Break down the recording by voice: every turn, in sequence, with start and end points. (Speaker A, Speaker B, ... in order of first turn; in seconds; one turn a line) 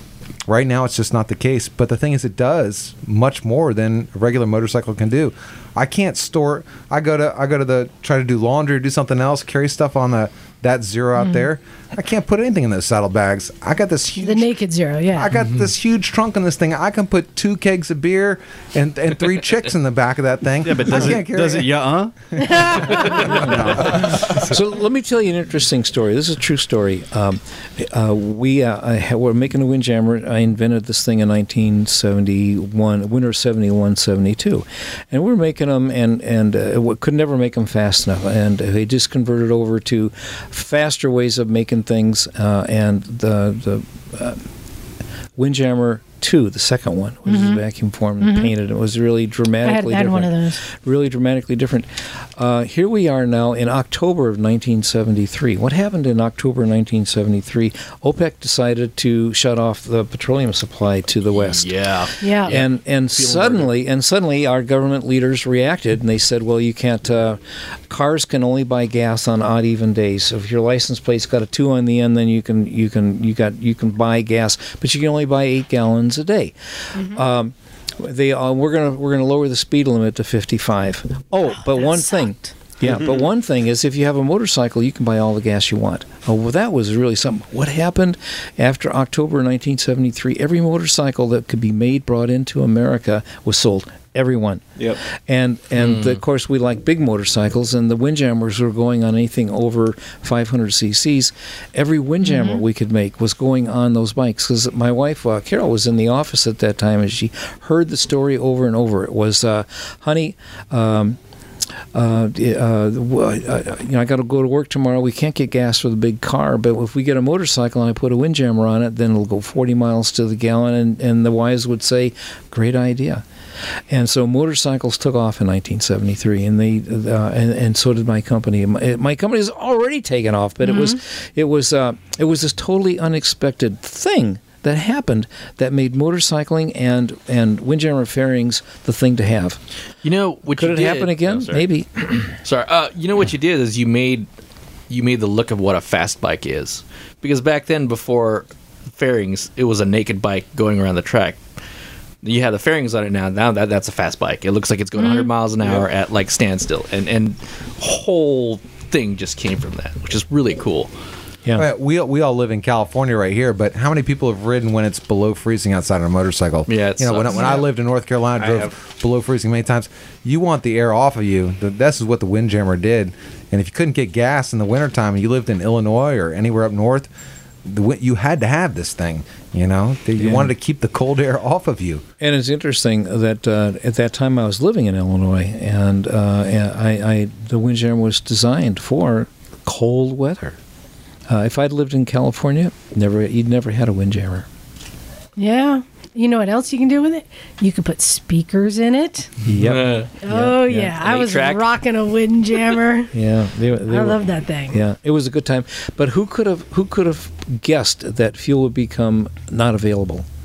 Speaker A: 0.5-14.5
Speaker B: 14.2-15.3
Speaker A: 15.1-21.8
Speaker C: 20.6-22.1
Speaker B: 22.4-23.4
Speaker A: 22.5-24.5
Speaker C: 22.7-24.4
Speaker D: 24.4-44.4
Speaker D: 45.4-61.7
Speaker B: 47.3-47.6
Speaker B: 48.2-48.5
Speaker B: 49.6-50.6
Speaker E: 61.4-63.7
Speaker B: 62.2-62.5
Speaker D: 62.5-111.2
Speaker B: 81.5-82.5
Speaker E: 95.8-96.1
Speaker B: 102.3-102.6
Speaker D: 111.9-123.2
Speaker D: 123.9-139.6
Speaker B: 130.7-131.0
Speaker E: 140.0-141.5
Speaker D: 140.5-142.4
Speaker E: 142.4-144.3
Speaker E: 144.9-151.4
Speaker E: 152.2-160.9
Speaker B: 155.0-155.3
Speaker A: 161.6-177.1
Speaker E: 166.7-167.7
Speaker A: 177.7-182.0
Speaker D: 180.2-180.5
Speaker D: 182.2-190.6
Speaker D: 191.3-194.5
Speaker B: 195.4-199.3
Speaker D: 199.5-200.9
Speaker E: 199.6-200.1
Speaker B: 200.2-203.1
Speaker E: 200.9-201.7
Speaker D: 203.1-210.3
Speaker B: 203.9-204.8